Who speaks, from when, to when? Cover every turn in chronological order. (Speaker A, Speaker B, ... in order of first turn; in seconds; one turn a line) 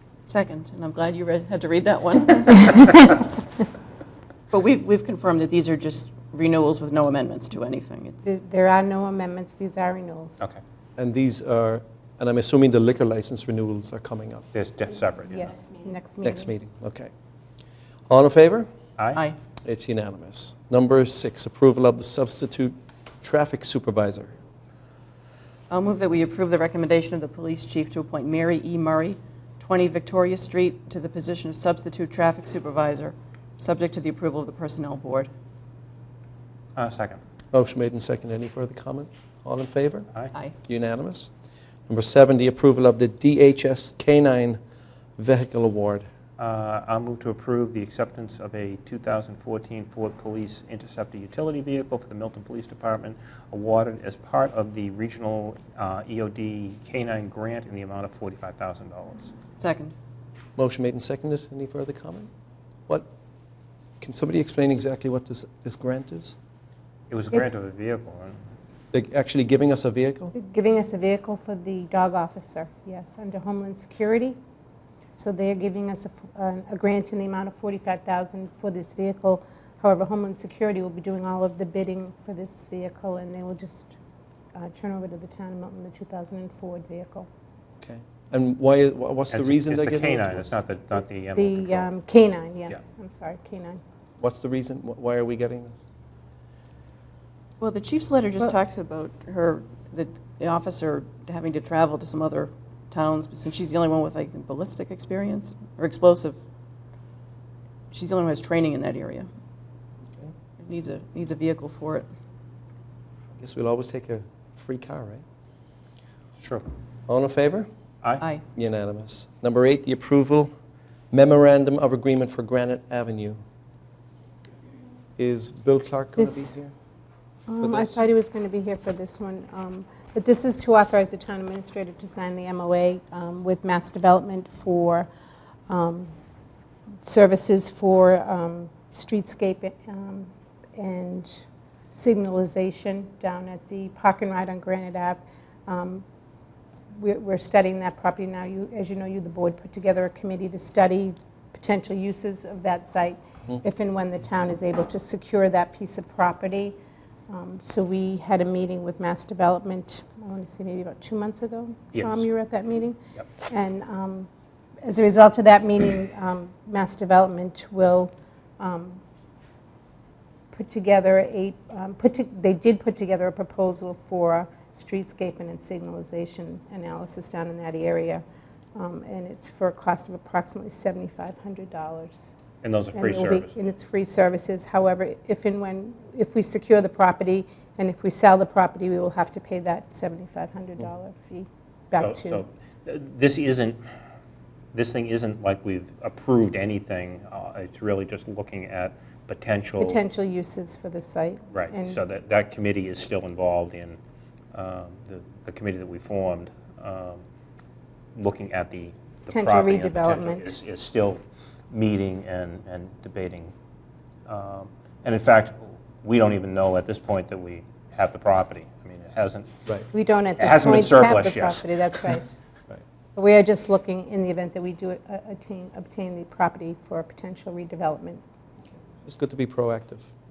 Speaker A: 0.3-3.2
Speaker A: 4.5-8.2
Speaker B: 8.2-10.4
Speaker C: 11.0-14.5
Speaker D: 14.5-15.6
Speaker B: 15.3-16.5
Speaker C: 16.2-17.1
Speaker C: 18.1-18.7
Speaker D: 19.0-19.2
Speaker C: 19.6-24.4
Speaker A: 25.7-35.3
Speaker D: 36.8-37.2
Speaker C: 37.5-40.1
Speaker C: 40.6-41.3
Speaker C: 41.9-44.6
Speaker C: 45.2-46.0
Speaker D: 46.4-59.3
Speaker A: 59.5-59.9
Speaker C: 60.5-62.3
Speaker C: 64.0-66.3
Speaker D: 67.1-68.4
Speaker C: 68.9-70.3
Speaker B: 70.3-74.4
Speaker B: 75.1-84.0
Speaker B: 84.5-87.3
Speaker C: 87.8-90.4
Speaker D: 89.3-91.9
Speaker B: 91.3-93.8
Speaker C: 94.2-95.8
Speaker A: 97.6-106.4
Speaker A: 107.9-109.3
Speaker A: 110.6-112.1
Speaker C: 113.3-115.2
Speaker C: 117.1-117.7
Speaker C: 118.5-120.5
Speaker C: 121.1-123.4
Speaker C: 125.2-126.7
Speaker B: 126.2-126.5
Speaker B: 127.5-135.1
Speaker C: 127.6-128.1
Speaker B: 135.7-136.1
Speaker B: 137.0-146.0
Speaker B: 146.9-156.8
Speaker B: 157.3-164.3
Speaker D: 161.9-162.3
Speaker B: 164.8-169.0
Speaker B: 170.5-178.2
Speaker B: 178.8-182.3
Speaker D: 182.6-183.6
Speaker B: 182.9-192.4
Speaker D: 191.9-193.8
Speaker D: 194.7-200.0
Speaker B: 199.8-202.0
Speaker D: 201.5-204.0
Speaker D: 204.5-207.2
Speaker D: 208.2-213.5
Speaker B: 209.3-210.5
Speaker D: 214.3-219.6
Speaker B: 219.9-222.3
Speaker D: 220.4-221.7
Speaker B: 223.1-228.2
Speaker C: 229.0-230.1